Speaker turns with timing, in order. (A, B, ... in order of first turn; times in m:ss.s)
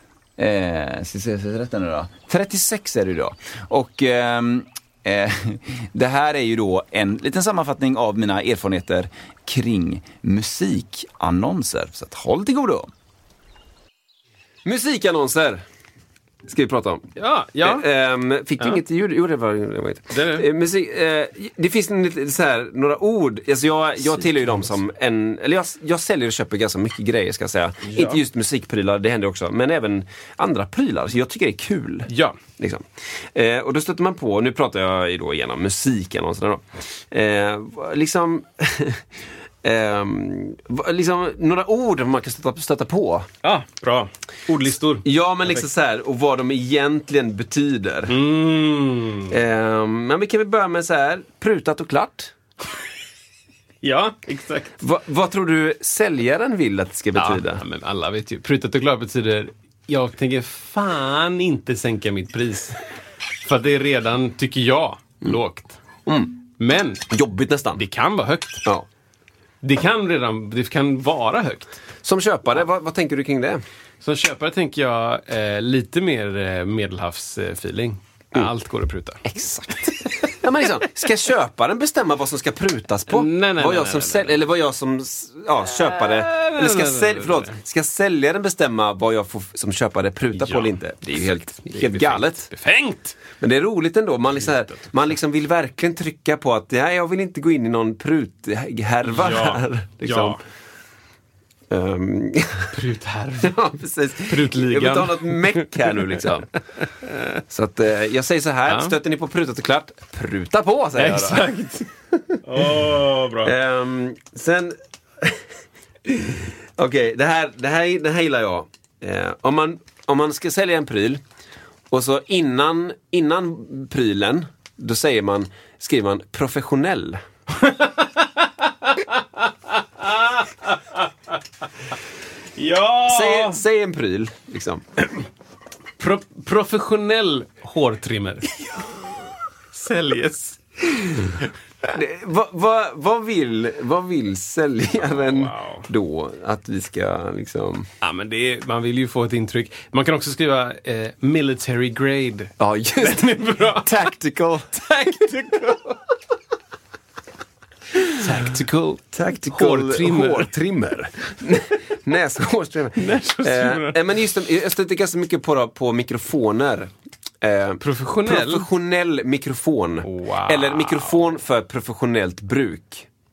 0:00.4-0:12.9 A
0:14.6-0:15.6 B
0:16.5-0:17.1 B
0:17.2-0:17.9 C
0:17.6-0:39.0 B
0:20.1-0:20.5 C
0:24.2-0:24.6 C
0:27.8-0:28.2 C
0:32.1-0:32.4 C
0:39.6-0:43.3 B
0:43.4-0:45.7 C
0:45.0-0:48.1 B
0:48.1-0:49.3 C
0:49.3-0:52.3 B
0:53.8-0:54.8 C
0:54.8-0:57.6 B
0:57.2-1:02.8 C
1:03.4-1:05.8 C
1:06.1-1:06.4 B
1:06.6-1:07.1 C
1:07.1-1:07.8 B
1:07.8-1:08.6 C
1:09.6-1:11.8 C
1:12.0-1:13.6 B
1:14.0-1:19.3 C
1:19.2-1:32.5 B
1:23.1-1:24.5 C
1:25.9-1:27.6 C
1:30.4-1:33.2 C
1:33.4-1:40.4 B
1:34.4-1:34.8 C
1:39.0-1:40.4 C
1:41.7-1:42.7 B
1:42.7-1:43.7 C
1:43.4-1:46.5 B
1:44.2-1:46.0 C
1:47.5-1:51.5 B
1:48.7-1:49.0 C
1:51.0-1:51.9 C
1:52.1-1:52.7 B
1:52.4-1:53.5 C
1:53.4-1:55.4 B
1:56.1-2:01.2 B
2:01.9-2:07.2 B
2:07.6-2:08.3 C
2:10.0-2:11.0 C
2:12.6-2:13.6 C
2:13.1-2:14.9 B
2:16.0-2:18.6 C
2:19.7-2:21.5 C
2:21.9-2:27.9 B
2:25.0-2:25.9 C
2:28.0-2:34.1 C
2:32.6-2:34.8 B
2:34.7-2:36.0 C
2:38.2-2:40.5 C
2:38.2-2:53.1 B
2:43.0-2:44.0 C
2:47.8-2:48.7 C
2:50.0-2:51.2 C